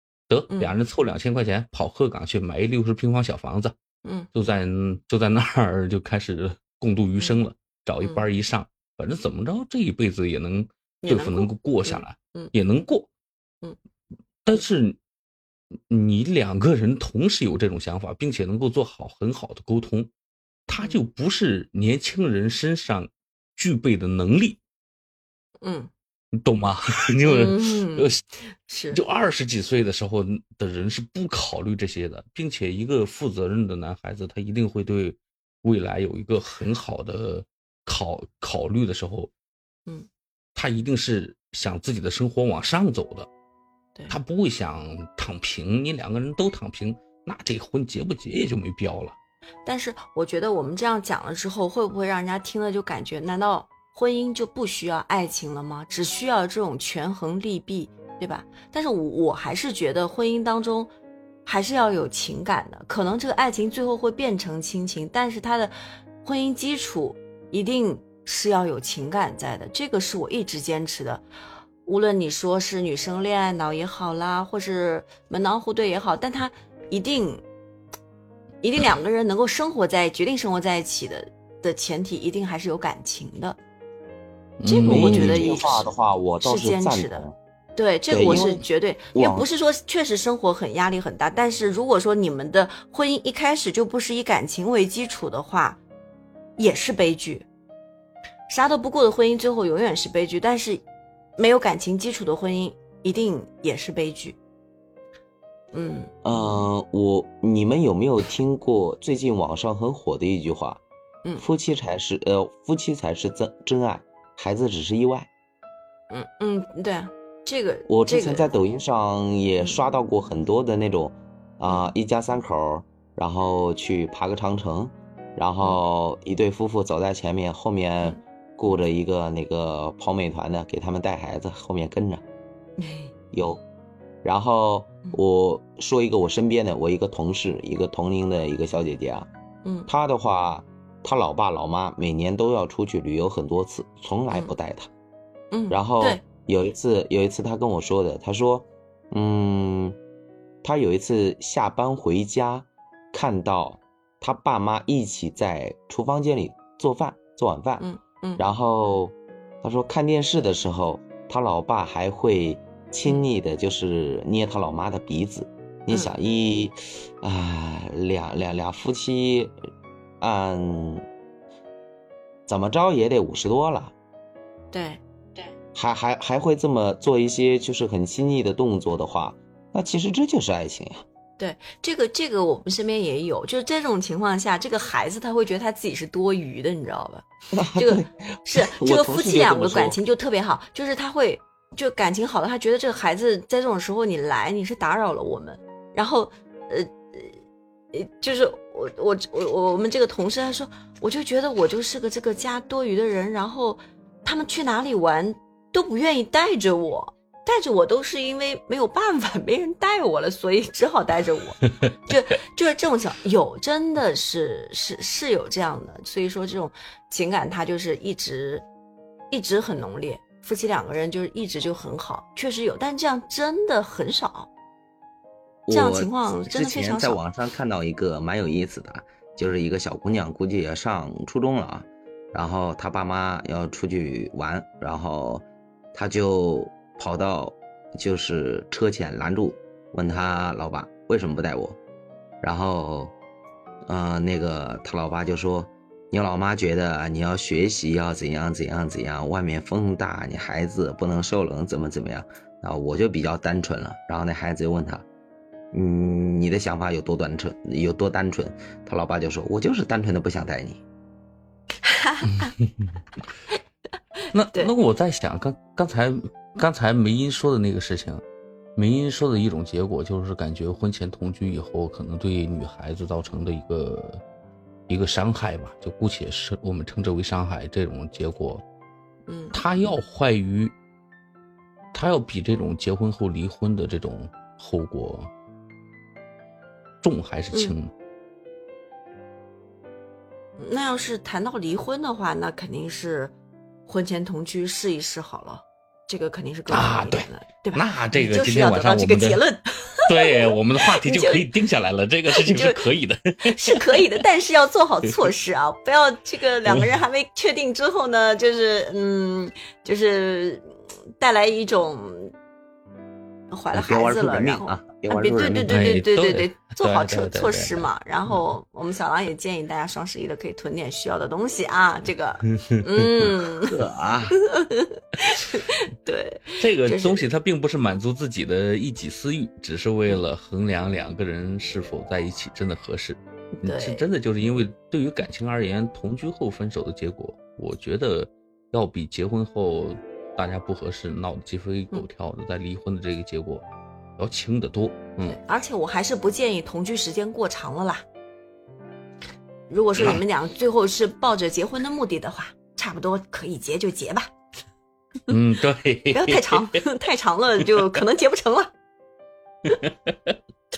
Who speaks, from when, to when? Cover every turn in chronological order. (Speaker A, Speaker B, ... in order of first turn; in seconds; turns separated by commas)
Speaker A: 0.3-3.7, Speaker B: 0.5-0.8, Speaker A: 4.3-13.1, Speaker B: 11.0-12.5, Speaker A: 14.4-15.0, Speaker A: 15.9-20.1, Speaker A: 20.7-24.6, Speaker B: 20.8-21.0, Speaker B: 25.6-25.9, Speaker A: 26.3-28.2, Speaker B: 27.2-28.1, Speaker B: 28.7-29.0, Speaker A: 28.9-39.3, Speaker A: 40.5-43.3, Speaker A: 44.1-49.1, Speaker B: 49.6-60.9, Speaker B: 61.5-71.2, Speaker B: 71.8-77.4, Speaker B: 78.6-83.6, Speaker A: 84.6-85.6, Speaker B: 84.6-85.9, Speaker C: 84.9-87.3, Speaker B: 86.4-87.2, Speaker B: 87.8-95.8, Speaker C: 88.1-88.6, Speaker C: 89.1-89.5, Speaker B: 96.6-97.5, Speaker B: 98.5-100.8, Speaker B: 101.4-104.4, Speaker B: 105.7-106.1, Speaker C: 106.2-110.8, Speaker C: 111.4-115.3, Speaker B: 116.1-118.5, Speaker C: 117.9-132.2, Speaker B: 121.7-121.9, Speaker B: 132.8-133.1, Speaker C: 133.3-133.6, Speaker C: 134.2-139.3, Speaker B: 139.6-139.9, Speaker C: 139.9-144.9, Speaker B: 145.5-146.2, Speaker C: 145.7-150.0, Speaker C: 150.6-157.9, Speaker B: 157.8-158.4, Speaker C: 158.4-169.5, Speaker C: 170.2-171.0, Speaker C: 172.5-173.9, Speaker B: 174.7-175.5, Speaker C: 175.7-181.0, Speaker B: 181.4-197.3, Speaker C: 187.6-190.0, Speaker B: 197.9-218.7, Speaker B: 219.3-224.5, Speaker C: 225.7-235.4, Speaker B: 225.7-227.2, Speaker C: 235.9-241.8, Speaker C: 242.4-243.1, Speaker C: 243.9-255.0, Speaker C: 255.7-260.8, Speaker B: 261.8-262.5, Speaker A: 262.4-262.6, Speaker A: 264.3-268.2, Speaker A: 268.8-274.2, Speaker A: 274.9-278.6, Speaker B: 279.3-279.6, Speaker A: 279.5-280.7, Speaker A: 281.9-285.3, Speaker A: 287.0-287.9, Speaker B: 290.6-293.3, Speaker B: 293.9-301.4, Speaker A: 296.7-299.4, Speaker A: 300.1-304.2, Speaker B: 302.4-302.9, Speaker B: 303.5-312.3, Speaker B: 313.5-323.8, Speaker C: 313.7-316.0, Speaker A: 315.7-317.9, Speaker C: 323.6-324.4, Speaker B: 324.5-327.3, Speaker A: 326.6-343.6, Speaker B: 333.6-334.1, Speaker A: 344.2-345.4, Speaker B: 345.2-348.0, Speaker B: 349.7-354.3, Speaker A: 355.3-356.8, Speaker B: 356.1-358.7, Speaker A: 359.7-360.4